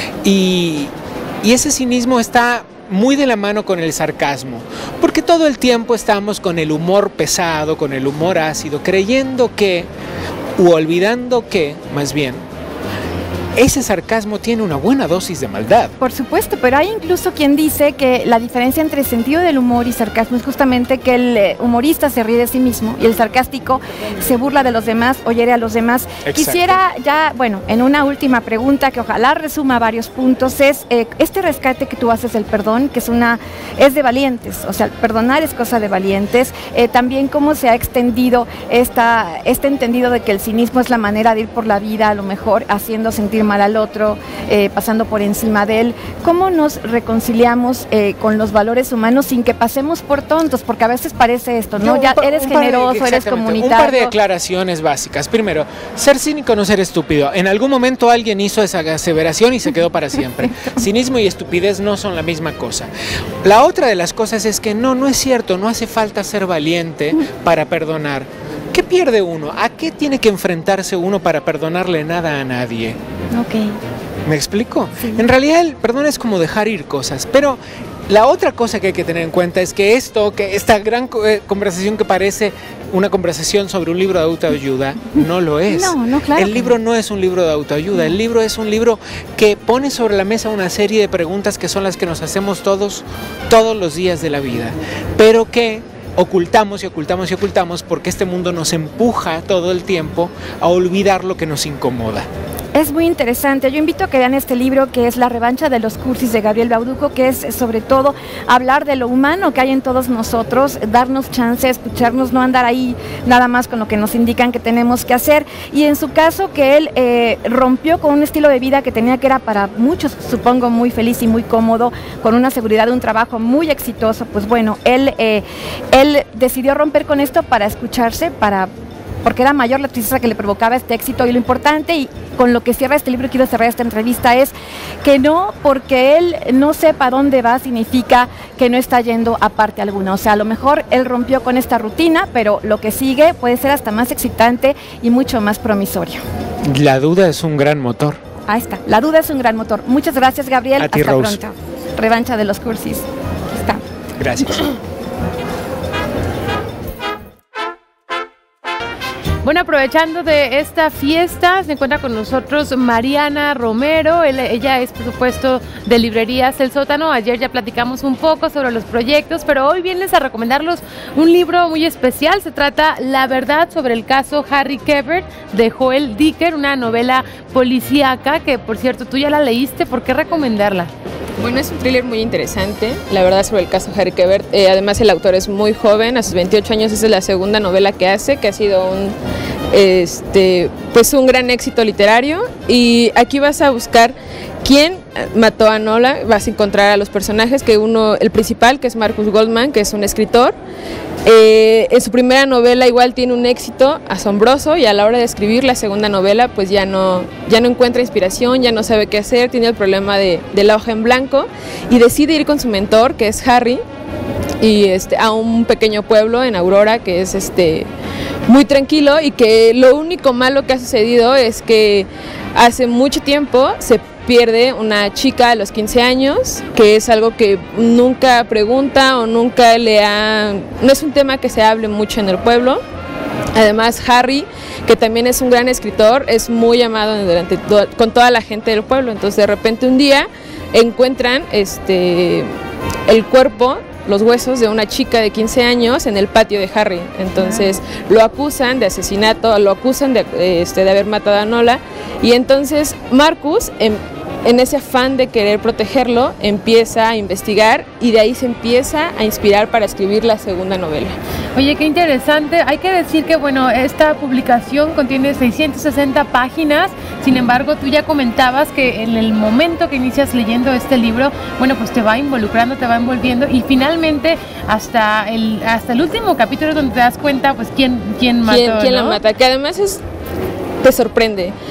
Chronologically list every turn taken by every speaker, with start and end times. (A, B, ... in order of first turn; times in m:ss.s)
0:00.2-0:09.9 A
0:10.6-0:12.4 A
0:13.6-0:15.9 A
0:16.0-0:54.1 B
0:26.2-0:26.8 A
0:51.8-1:02.9 A
1:03.4-1:13.0 A
1:13.3-1:13.8 B
1:14.3-1:42.3 A
1:25.2-1:26.8 B
1:42.7-2:08.7 B
2:09.2-2:26.2 B
2:26.7-2:28.2 A
2:28.5-2:33.8 B
2:30.8-2:31.4 A
2:34.2-2:34.7 A
2:39.4-3:00.9 C
3:01.4-3:09.2 D
3:09.7-3:20.6 D
3:21.2-3:33.8 D
3:34.6-3:37.9 D
3:38.5-3:52.8 D
3:53.6-4:02.5 D
4:03.1-4:21.2 D
4:21.6-4:39.2 C
4:38.4-4:40.0 D
4:40.8-4:41.6 D